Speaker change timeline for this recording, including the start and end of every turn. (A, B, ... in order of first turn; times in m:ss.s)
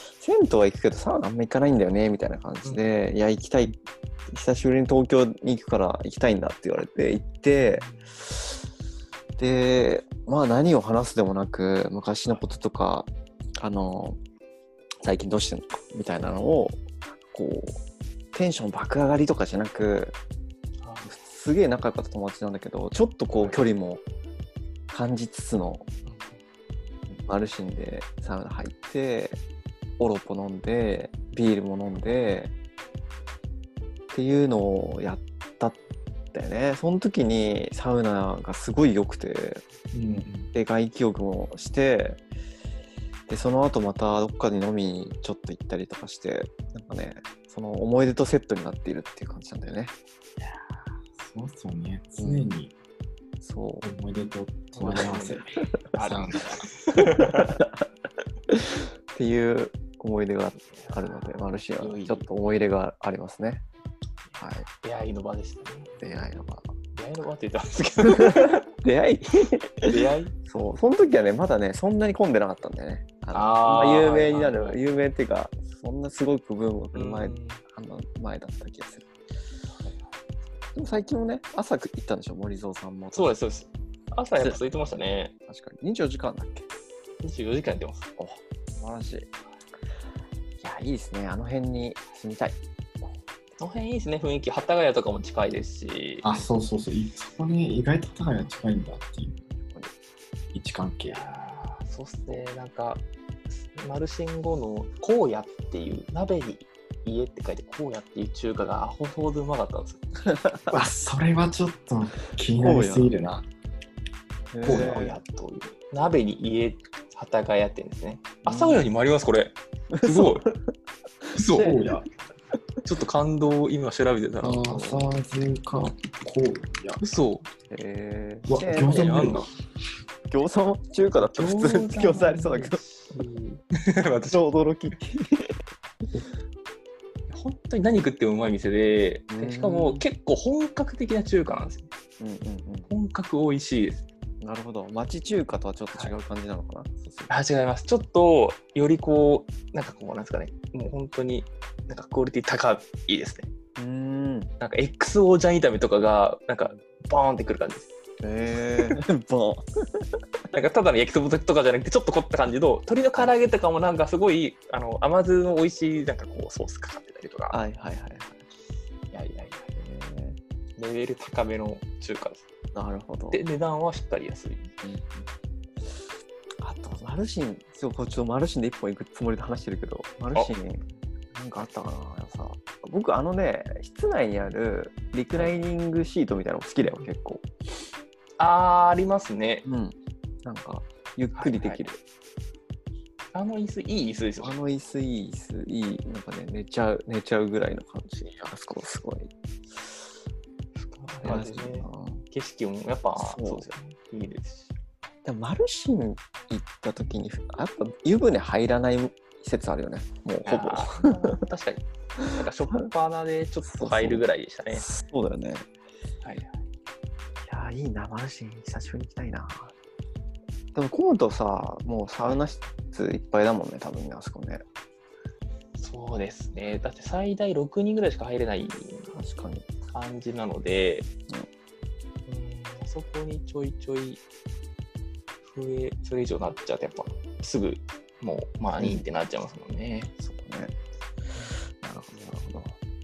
0:00.2-0:03.8 A
0:04.3-0:08.4 A
0:07.7-0:08.2 B
0:09.4-0:13.1 A
0:13.6-0:14.2 A
0:15.0-0:16.8 A
0:17.3-0:17.8 A
0:18.3-0:20.2 A
0:20.8-0:21.2 B
0:21.1-0:24.0 A
0:23.4-0:23.7 B
0:24.9-0:25.8 A
0:26.1-0:26.4 B
0:27.2-0:29.4 A
0:30.0-0:32.5 A
0:34.1-0:35.8 A
0:36.3-0:39.6 A
0:39.9-0:40.5 C
0:40.5-0:42.2 A
0:43.3-0:49.9 A
0:50.4-0:52.7 C
0:52.2-0:52.5 A
0:53.4-0:53.9 A
0:53.8-0:56.7 C
0:54.7-0:57.5 B
0:57.2-0:57.7 A
0:58.5-1:03.6 A
1:00.6-1:02.3 B
1:04.4-1:04.7 A
1:04.8-1:05.9 B
1:06.0-1:06.7 A
1:07.0-1:08.6 B
1:08.1-1:10.0 A
1:09.9-1:10.3 B
1:10.5-1:19.1 A
1:13.3-1:15.0 B
1:16.9-1:17.6 B
1:20.8-1:23.3 A
1:23.1-1:25.3 B
1:24.4-1:24.6 A
1:25.5-1:26.7 A
1:27.2-1:28.1 B
1:28.2-1:29.3 A
1:30.6-1:32.6 A
1:33.6-1:36.3 B
1:36.2-1:39.4 C
1:39.7-1:39.9 A
1:40.5-1:41.3 C
1:41.1-1:50.0 B
1:50.3-1:50.6 A
1:50.7-1:53.5 C
1:52.5-1:53.1 A
1:54.5-1:55.2 A
1:54.6-1:55.0 C
1:54.7-2:00.5 B
1:58.5-1:58.9 A
1:59.9-2:00.7 A
2:01.3-2:01.8 A
2:01.4-2:01.7 B
2:01.6-2:02.0 C
2:02.8-2:04.7 B
2:04.4-2:07.0 C
2:04.6-2:05.1 A
2:07.0-2:07.5 B
2:07.7-2:09.4 A
2:08.5-2:09.5 C
2:08.8-2:09.5 B
2:10.3-2:12.8 A
2:11.2-2:14.4 B
2:14.3-2:15.6 A
2:17.3-2:21.9 B
2:19.3-2:20.0 A
2:22.2-2:22.9 A
2:22.9-2:24.0 B
2:24.4-2:27.3 A
2:27.3-2:33.5 B
2:33.8-2:34.5 A
2:34.6-2:37.9 B
2:38.2-2:40.1 A
2:40.5-2:47.6 B
2:47.5-2:48.4 A
2:49.1-2:49.7 B
2:49.7-2:50.4 A
2:50.8-2:52.4 B
2:52.7-2:53.4 A
2:53.3-2:54.7 B
2:54.8-2:55.3 A
2:56.6-3:07.4 A
3:08.4-3:09.6 B
3:09.6-3:12.0 A
3:11.3-3:11.8 B
3:13.3-3:14.6 B
3:14.4-3:19.3 A
3:20.8-3:24.7 B
3:21.2-3:22.2 A
3:23.2-3:23.7 A
3:25.2-3:31.1 A
3:30.4-3:34.9 B
3:33.6-3:35.7 A
3:36.2-3:36.6 B
3:37.5-3:39.7 A
3:40.8-3:44.6 A
3:45.8-3:49.1 B
3:49.1-3:49.6 A
3:49.9-3:51.1 B
3:52.3-3:54.2 B
3:55.4-4:00.1 B
4:00.2-4:00.7 A
4:01.8-4:02.8 A